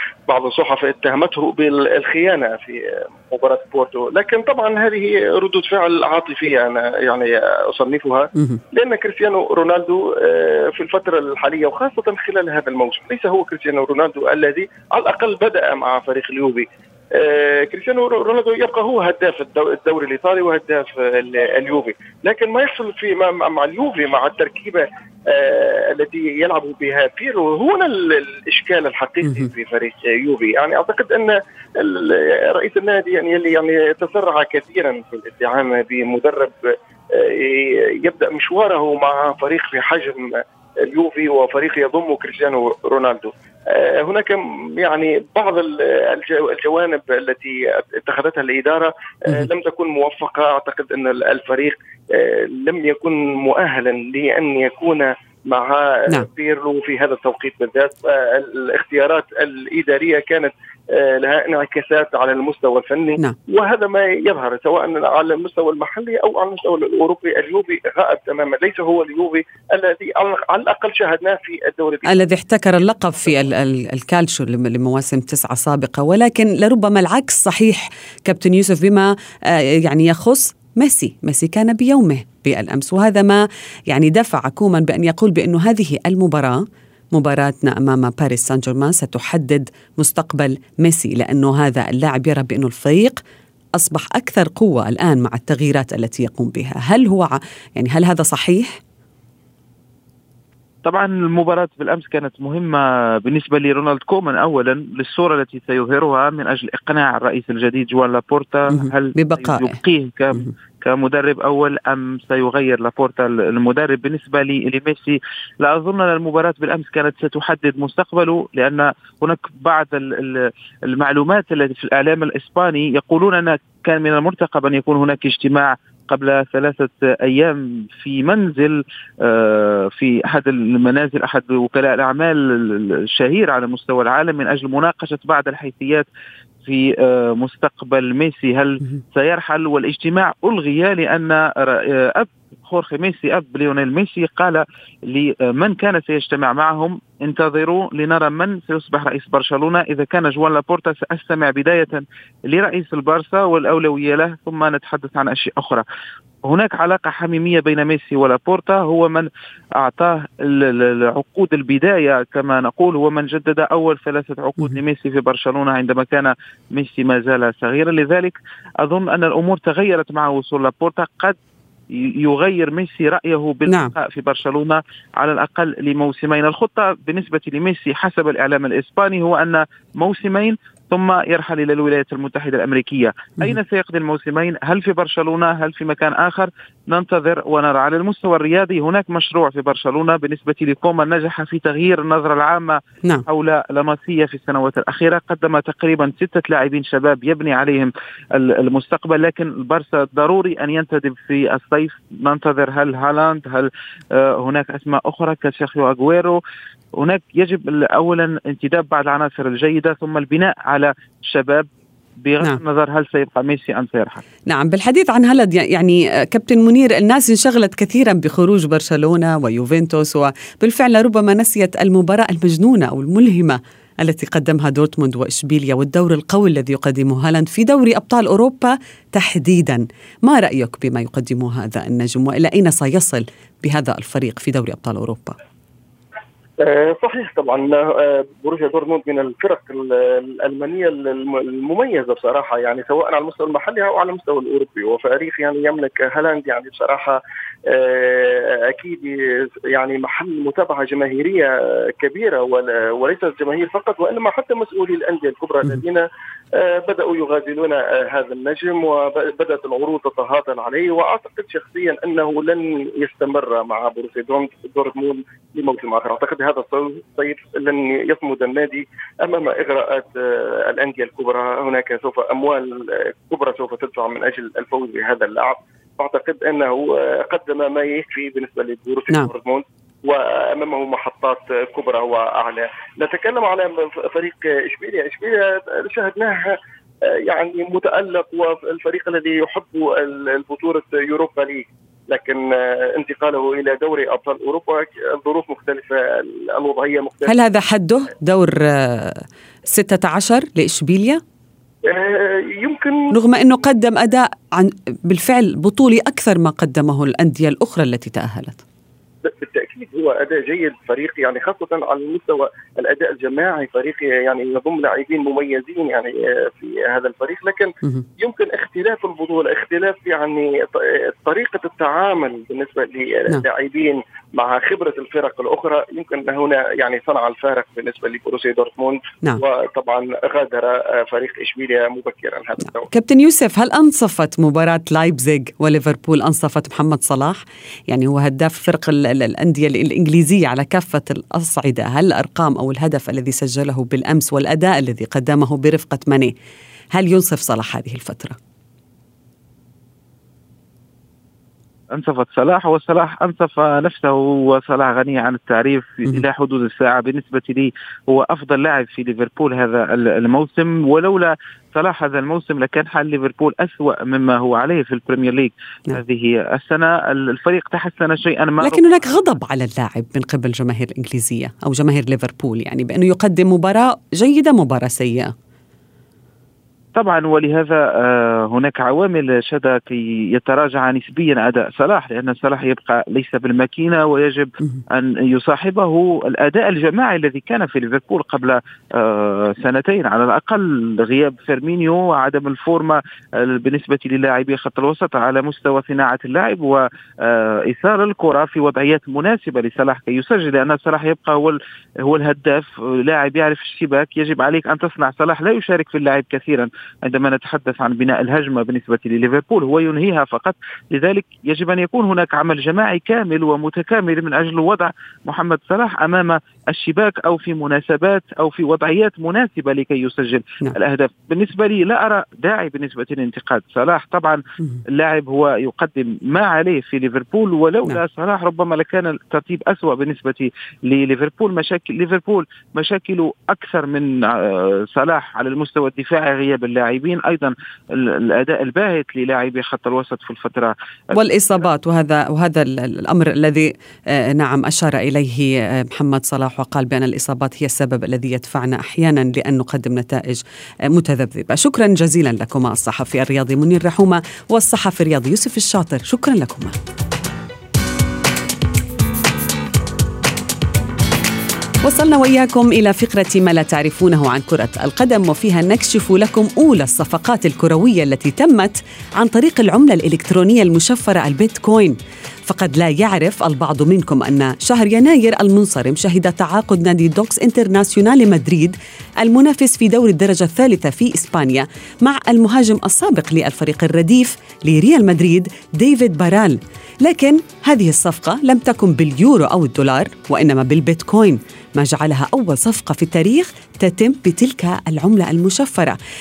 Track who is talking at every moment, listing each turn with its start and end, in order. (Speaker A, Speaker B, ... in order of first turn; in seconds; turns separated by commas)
Speaker A: 0.3-72.2, Speaker B: 72.1-93.2, Speaker B: 93.8-98.8, Speaker C: 100.8-136.1, Speaker B: 108.7-109.8, Speaker C: 136.6-155.8, Speaker C: 156.4-159.3, Speaker C: 159.8-171.3, Speaker C: 171.9-206.4, Speaker B: 173.7-173.9, Speaker C: 206.9-211.7, Speaker C: 212.2-214.2, Speaker B: 214.5-235.4, Speaker A: 236.6-297.3, Speaker B: 297.3-301.2, Speaker A: 301.8-303.1, Speaker B: 303.1-308.6, Speaker A: 309.2-332.9, Speaker B: 332.9-346.3, Speaker B: 346.9-348.4, Speaker C: 351.9-368.9, Speaker B: 368.6-375.3, Speaker C: 376.9-440.7, Speaker B: 441.1-456.7, Speaker B: 461.8-496.0